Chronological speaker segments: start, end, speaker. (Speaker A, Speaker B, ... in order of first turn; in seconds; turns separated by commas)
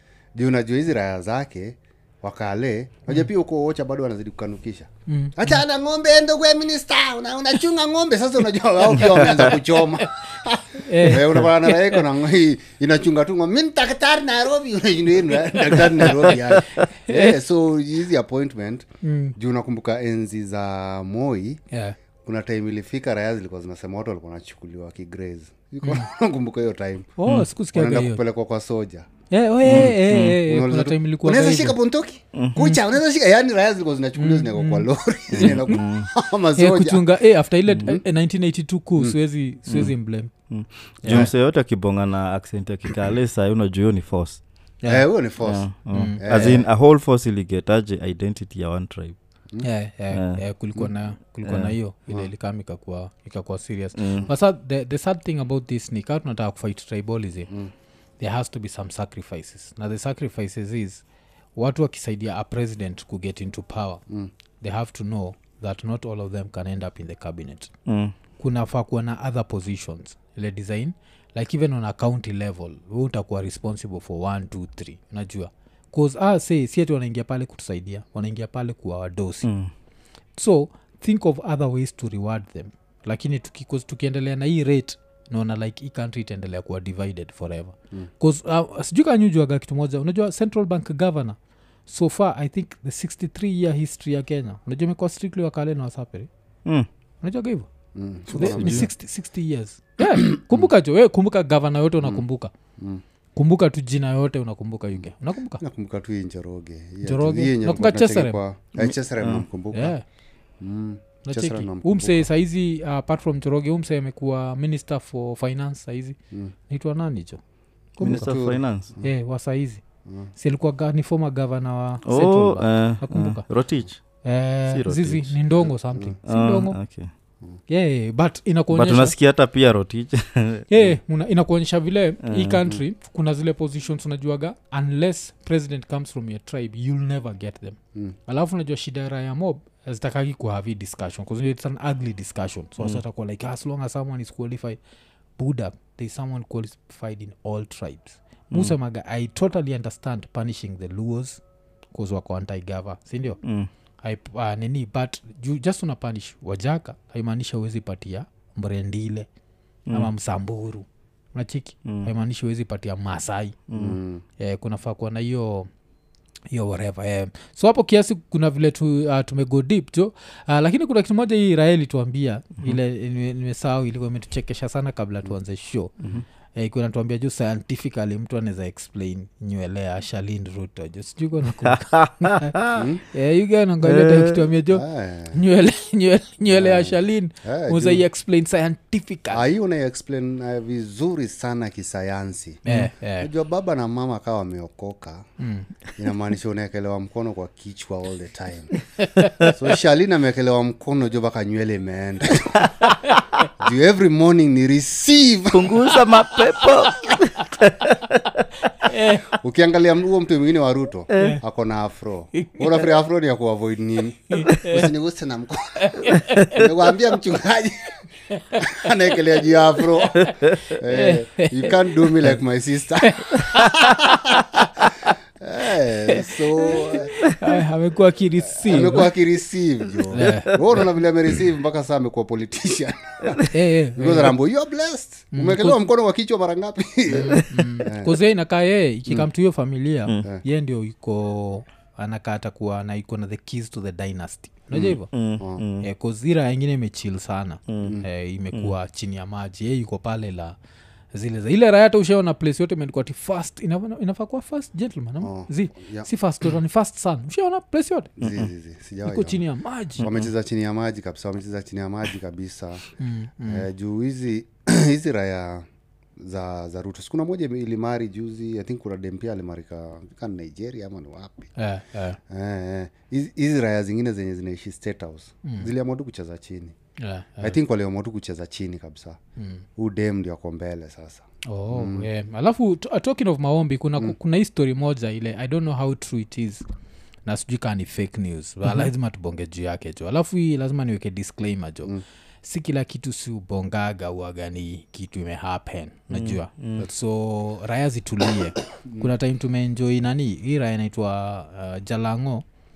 Speaker A: 0.3-21.6, Speaker B: 5.1-5.6, Speaker B: 10.8-12.0, Speaker B: 16.0-16.3, Speaker B: 17.1-17.4, Speaker B: 19.0-19.4, Speaker B: 21.7-22.0, Speaker A: 22.2-27.1, Speaker B: 27.2-28.2, Speaker A: 27.7-29.1, Speaker B: 29.3-31.8, Speaker A: 29.6-37.1, Speaker C: 29.7-30.4, Speaker C: 32.4-32.7, Speaker B: 34.2-35.8, Speaker C: 35.4-36.1, Speaker B: 36.6-40.3, Speaker C: 39.7-39.9, Speaker C: 40.5-44.4, Speaker B: 41.0-41.3, Speaker A: 44.9-45.7, Speaker C: 45.4-49.2, Speaker B: 45.9-46.2, Speaker A: 46.2-46.7, Speaker B: 49.6-57.5, Speaker C: 50.1-50.4, Speaker C: 51.5-51.8, Speaker C: 54.0-54.3, Speaker B: 58.2-61.0, Speaker B: 61.6-64.0, Speaker B: 64.6-67.7, Speaker C: 67.9-68.2, Speaker B: 68.4-79.5, Speaker C: 79.4-79.7, Speaker B: 80.4-96.3, Speaker B: 97.2-97.7, Speaker A: 98.0-98.9, Speaker B: 98.3-102.5, Speaker C: 98.5-98.9, Speaker A: 100.3-100.7, Speaker A: 102.8-103.0, Speaker B: 103.4-105.6, Speaker A: 105.6-110.0, Speaker B: 107.0-108.4, Speaker C: 108.8-109.5, Speaker B: 109.7-110.0, Speaker A: 110.6-112.3, Speaker B: 111.3-116.2, Speaker B: 116.7-117.4, Speaker B: 118.0-118.3, Speaker C: 118.0-118.9, Speaker A: 118.0-119.1, Speaker B: 119.0-119.8, Speaker B: 120.3-123.4, Speaker C: 122.1-124.0, Speaker B: 124.2-126.8, Speaker C: 124.7-125.4, Speaker C: 126.3-127.1, Speaker B: 127.7-129.1, Speaker C: 128.7-130.8, Speaker B: 130.7-144.8, Speaker C: 132.2-132.6, Speaker B: 145.4-151.4, Speaker B: 151.9-153.4, Speaker C: 153.4-153.7, Speaker B: 154.0-159.3, Speaker B: 159.9-163.6, Speaker C: 163.7-164.0, Speaker A: 163.8-164.2, Speaker B: 164.4-165.7, Speaker B: 166.5-175.9, Speaker B: 176.6-182.6, Speaker C: 181.7-182.9, Speaker A: 182.7-183.0, Speaker B: 183.1-189.4, Speaker C: 183.9-184.4, Speaker A: 184.7-185.4, Speaker A: 186.5-188.1, Speaker A: 189.3-192.6, Speaker B: 192.7-193.3, Speaker A: 193.2-195.2, Speaker B: 195.4-195.7, Speaker A: 196.0-198.8, Speaker B: 199.0-199.5, Speaker A: 199.4-202.7, Speaker B: 202.8-203.5, Speaker A: 203.6-206.0, Speaker C: 205.5-208.4, Speaker B: 208.8-209.3, Speaker A: 209.3-218.0, Speaker C: 211.1-211.4, Speaker B: 212.3-212.8, Speaker B: 214.3-214.9, Speaker B: 215.8-216.7, Speaker B: 218.3-218.8, Speaker A: 218.6-224.8, Speaker B: 220.9-222.4, Speaker B: 223.0-224.8, Speaker A: 225.4-227.1, Speaker B: 226.1-229.1, Speaker A: 228.5-238.2, Speaker B: 230.1-230.6, Speaker C: 230.2-230.6, Speaker B: 233.5-234.4, Speaker B: 235.3-235.8, Speaker B: 237.1-245.1, Speaker A: 244.7-245.6, Speaker C: 245.1-245.9, Speaker B: 245.8-250.6, Speaker C: 247.7-248.0, Speaker B: 251.1-258.3, Speaker A: 255.2-256.1, Speaker A: 258.2-259.4, Speaker B: 259.1-260.1, Speaker A: 260.0-262.9, Speaker C: 260.0-260.3, Speaker B: 263.0-263.7, Speaker A: 263.5-265.7, Speaker A: 266.2-271.5, Speaker B: 271.6-272.2, Speaker A: 272.3-276.8, Speaker B: 275.4-275.7, Speaker B: 277.0-277.6, Speaker A: 277.4-279.2, Speaker B: 279.4-279.6, Speaker A: 279.8-282.1, Speaker B: 281.5-286.6, Speaker B: 287.3-302.4, Speaker C: 296.1-296.9